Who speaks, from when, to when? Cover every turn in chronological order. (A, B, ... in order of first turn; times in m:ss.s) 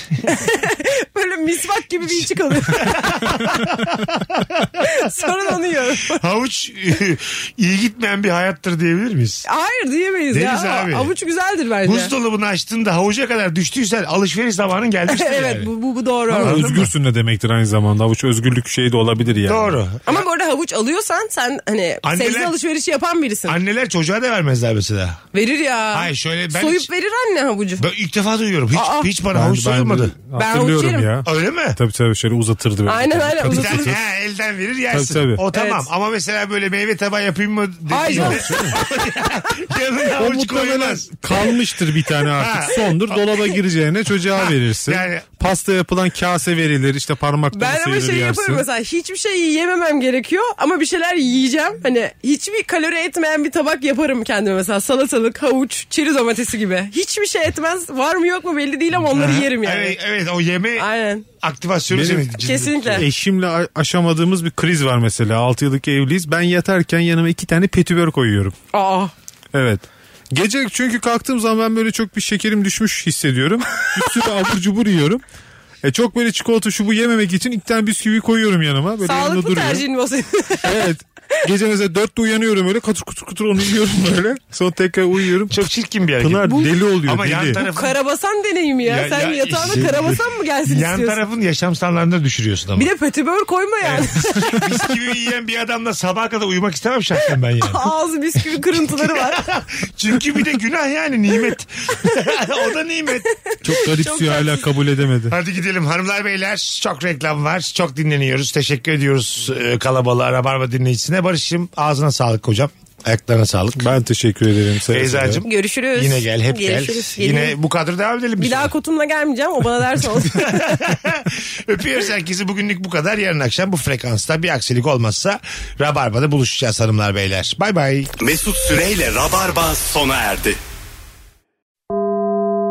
0:00.2-0:03.5 A
0:02.1-0:05.0 B
0:04.8-0:06.2 A
0:06.1-0:09.4 B
0:09.4-0:12.1 A
0:10.3-0:11.1 B
0:11.8-0:15.7 B
0:15.1-0:16.6 A
0:16.3-0:19.8 C
0:16.3-0:16.9 B
0:19.4-0:20.2 B
0:20.0-0:23.6 A
0:22.0-0:22.5 B
0:23.5-0:25.2 B
0:25.3-0:27.8 A
0:25.9-0:26.9 B
0:27.8-0:30.1 B
0:28.7-0:29.1 A
0:29.3-0:34.0 C
0:30.3-0:31.1 A
0:31.2-0:31.8 B
0:32.9-0:33.9 A
0:33.4-0:41.1 B
0:34.9-0:35.4 C
0:35.5-0:35.9 A
0:37.9-0:38.8 A
0:38.1-0:38.8 C
0:40.2-0:48.6 C
0:42.2-0:43.4 B
0:44.3-0:45.3 B
0:47.5-1:00.0 A
0:59.1-1:03.1 B
1:00.8-1:01.2 A
1:01.9-1:08.5 C
1:02.4-1:03.0 A
1:08.7-1:09.1 A
1:09.5-1:15.2 C
1:15.8-1:19.8 C
1:19.0-1:20.8 A
1:20.6-1:25.6 C
1:25.5-1:28.0 B
1:26.2-1:27.6 C
1:26.4-1:26.7 A
1:27.5-1:31.2 A
1:28.8-1:32.9 B
1:29.7-1:30.0 C
1:32.8-1:34.6 A
1:33.8-1:37.8 B
1:37.6-1:39.4 A
1:38.8-1:43.3 B
1:43.3-1:44.7 A
1:43.6-1:45.4 C
1:45.3-1:53.9 B
1:53.8-1:55.4 C
1:54.9-1:58.7 B
1:55.4-1:57.6 A
1:58.4-2:00.8 A
2:00.2-2:08.1 B
2:08.2-2:10.6 D